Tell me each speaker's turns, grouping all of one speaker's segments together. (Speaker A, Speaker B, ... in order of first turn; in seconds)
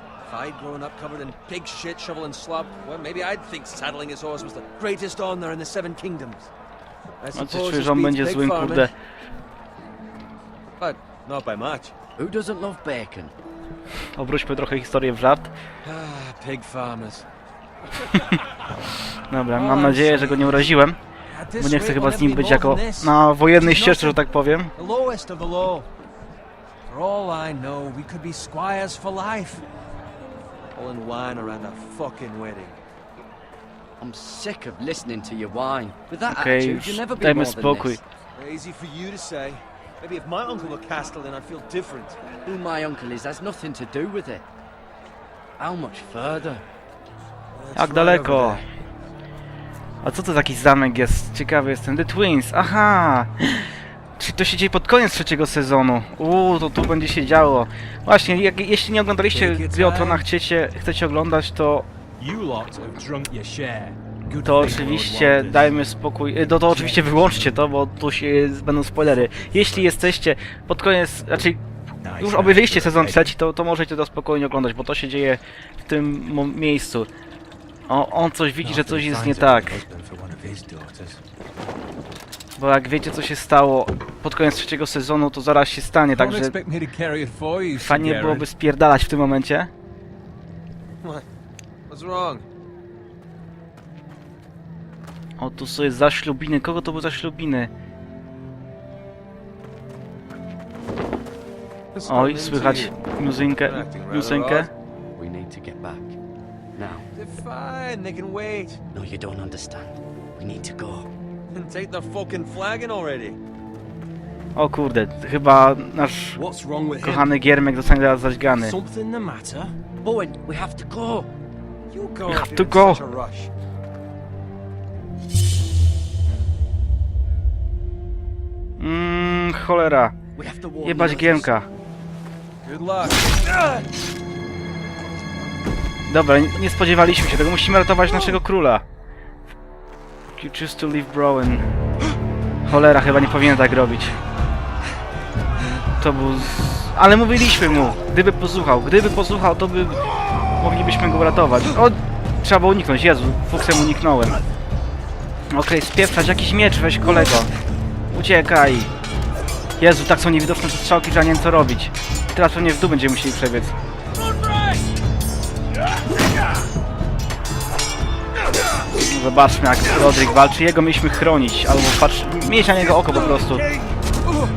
Speaker A: 0.2-6.5, 7.2-8.9, 10.8-11.9, 15.8-17.3, 19.5-20.8, 21.3-24.2, 24.8-25.9, 26.9-29.6, 30.7-32.8, 38.4-42.3, 47.6-48.7, 59.3-60.3, 62.2-65.7, 66.5-67.5, 69.7-70.0, 86.1-88.5, 91.9-92.5, 102.0-104.7, 107.1-108.8, 111.5-113.4, 116.4-117.3, 118.5-119.7, 121.9-123.5, 132.6-133.9
Speaker B: 7.3-8.9, 14.0-15.5, 19.2-21.0, 21.6-24.7, 36.3-38.0, 47.7-48.6, 50.0-61.9, 64.4-71.6, 72.2-77.1, 77.9-79.8, 82.6-86.5, 87.7-89.7, 95.4-97.7, 102.0-104.7, 114.5-116.5, 117.0-118.8, 122.3-123.0, 128.8-130.1, 130.8-131.7, 136.1-138.8, 140.4-141.7, 142.7-144.2, 146.0-150.1, 150.6-154.4, 155.5-157.5, 158.1-158.9, 159.8-163.7, 168.9-173.7
Speaker C: 12.2-13.3, 34.0-38.0, 42.4-44.5, 45.6-46.6, 105.2-106.2, 106.8-107.1, 108.9-111.1, 120.0-121.3, 130.4-131.6
Speaker D: 72.0-73.3, 78.6-81.2